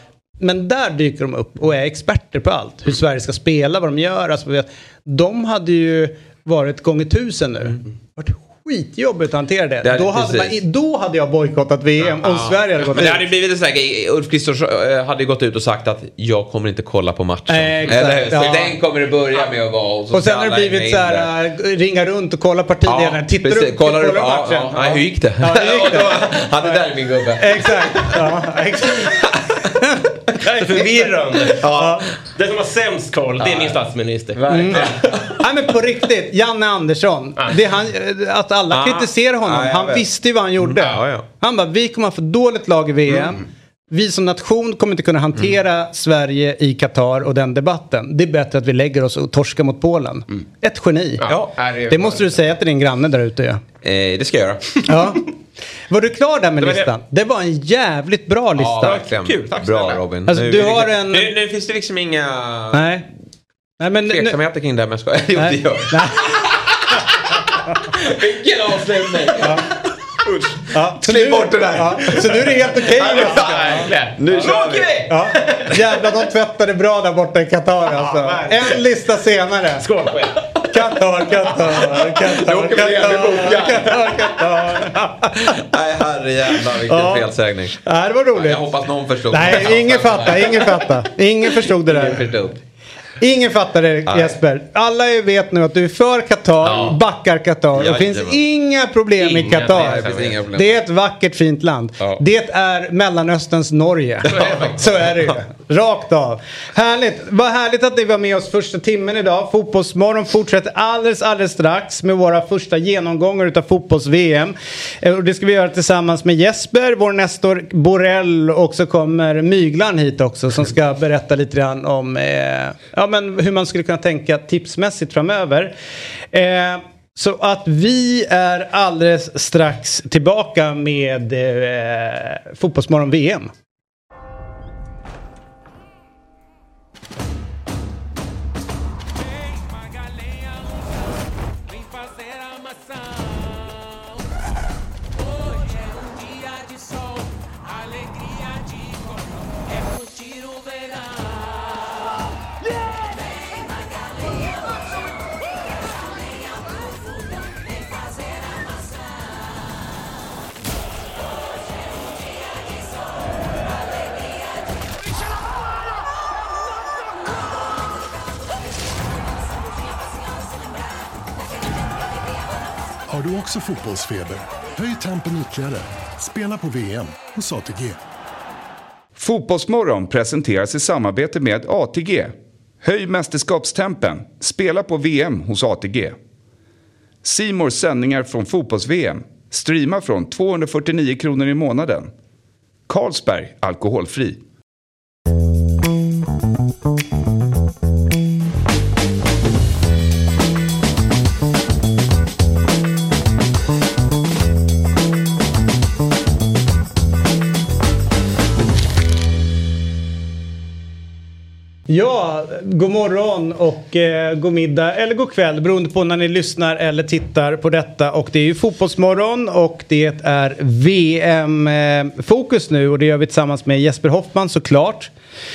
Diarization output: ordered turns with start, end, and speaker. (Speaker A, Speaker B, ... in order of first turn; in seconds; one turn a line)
Speaker A: 0.4-13.2
Speaker B: 9.8-10.6
Speaker B: 12.1-21.3
Speaker A: 17.5-18.8
Speaker A: 20.1-30.9
Speaker B: 22.8-28.3
Speaker B: 28.9-29.7
Speaker C: 30.4-35.0
Speaker A: 31.6-32.1
Speaker B: 33.4-33.8
Speaker B: 34.3-35.4
Speaker A: 34.5-51.2
Speaker B: 38.7-40.1
Speaker B: 40.6-41.2
Speaker C: 51.2-52.2
Speaker B: 51.3-51.5
Speaker A: 51.9-53.6
Speaker B: 53.8-54.9
Speaker A: 54.9-55.3
Speaker A: 55.9-59.0
Speaker C: 56.6-56.9
Speaker B: 58.6-62.9
Speaker C: 58.8-60.0
Speaker A: 60.3-61.3
Speaker A: 62.7-63.0
Speaker A: 63.8-64.4
Speaker B: 64.1-69.7
Speaker A: 65.3-66.5
Speaker A: 69.4-69.7
Speaker B: 70.5-75.2
Speaker A: 70.7-73.9
Speaker C: 73.0-75.7
Speaker A: 75.1-79.9
Speaker C: 79.8-80.4
Speaker A: 80.7-85.6
Speaker B: 81.8-84.4
Speaker B: 85.4-87.8
Speaker A: 86.6-87.3
Speaker A: 87.8-88.7
Speaker B: 88.3-91.0
Speaker A: 89.3-92.3
Speaker B: 91.6-92.6
Speaker A: 93.2-125.7
Speaker B: 94.1-94.4
Speaker B: 96.6-97.0
Speaker B: 97.7-98.4
Speaker B: 99.2-100.8
Speaker B: 104.3-105.4
Speaker A: 126.3-133.5
Speaker D: 173.1-178.0
Speaker E: 179.2-186.2
Speaker E: 187.2-192.1
Speaker E: 192.9-194.4
Speaker A: 211.9-225.1